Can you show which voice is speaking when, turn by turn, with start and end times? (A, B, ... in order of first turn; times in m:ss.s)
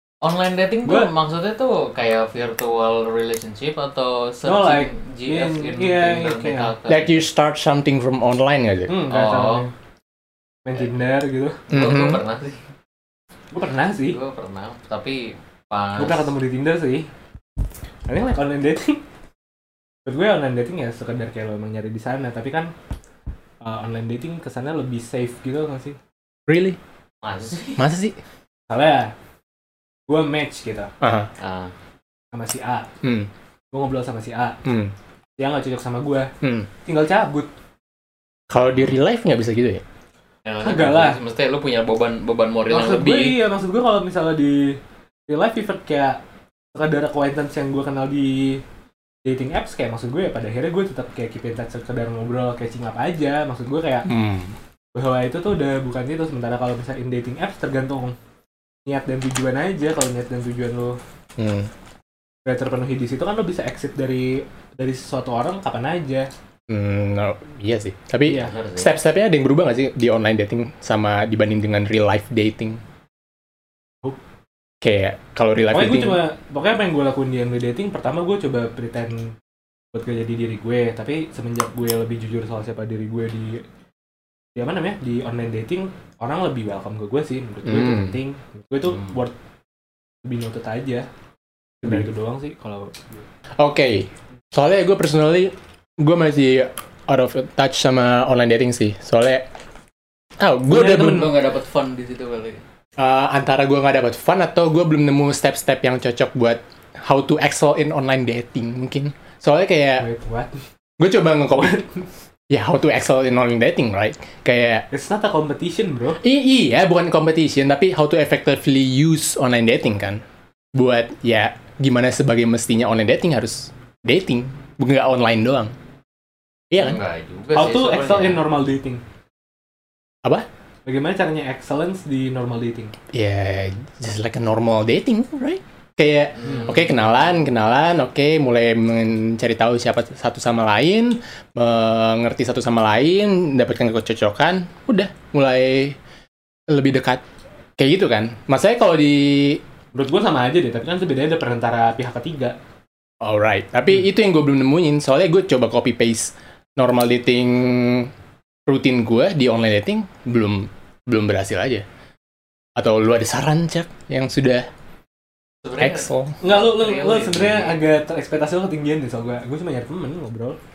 0:00.2-0:07.2 A
0:00.8-0:01.1 B
0:04.4-0:06.7 B
0:06.9-0:09.0 C
0:08.9-0:09.7 B
0:09.1-0:09.7 A
0:10.7-0:11.6 B
0:11.7-0:12.6 A
0:11.7-0:12.2 C
0:13.5-0:14.2 B
0:14.0-0:16.3 A
0:16.0-0:17.1 B
0:18.1-0:19.0 B
0:20.1-0:22.7 B
0:23.6-0:26.0 B
0:26.5-0:26.8 C
0:27.2-0:27.8 A
0:27.8-0:28.2 C
0:28.7-0:29.1 B
0:30.1-0:30.9 B
0:31.0-0:31.3 C
0:31.4-0:31.7 A
0:32.3-0:32.9 B
0:33.0-0:33.3 C
0:33.7-0:34.6 B
0:34.6-0:34.9 C
0:35.4-0:36.3 B
0:36.4-0:36.7 C
0:36.8-0:37.5 B
0:38.5-0:39.8 C
0:40.4-0:43.4 A
0:40.6-0:41.2 B
0:42.7-0:46.2 B
0:46.7-0:48.6 B
0:49.2-0:54.1 B
0:54.1-0:54.6 C
0:55.0-0:58.2 B
0:58.9-1:01.0 B
1:01.4-1:01.7 C
1:02.5-1:06.3 B
1:06.7-1:12.8 C
1:08.3-1:08.5 B
1:08.3-1:08.9 A
1:14.8-1:16.2 C
1:15.7-1:19.4 B
1:19.9-1:23.6 B
1:24.6-1:29.4 B
1:27.7-1:28.2 C
1:30.2-1:31.1 B
1:31.8-1:33.1 B
1:33.6-1:39.5 C
1:40.4-1:41.3 C
1:40.7-1:42.6 A
1:40.7-1:41.3 B
1:43.0-1:50.1 C
1:50.0-1:50.6 B
1:51.0-1:51.8 C
1:51.6-1:52.1 B
1:52.5-1:54.9 C
1:54.9-1:56.2 B
1:56.2-2:00.2 C
2:00.8-2:05.7 C
2:06.7-2:07.0 C
2:06.8-2:08.4 A
2:07.6-2:09.0 B
2:10.9-2:12.9 B
2:13.1-2:26.0 C
2:16.4-2:17.1 A
2:26.7-2:27.2 C
2:27.8-2:29.6 C
2:29.9-2:32.6 B
2:33.2-2:38.1 C
2:38.7-2:41.8 C
2:42.8-2:44.6 C
2:45.6-2:47.8 A
2:45.8-2:46.4 C
2:46.4-2:50.6 B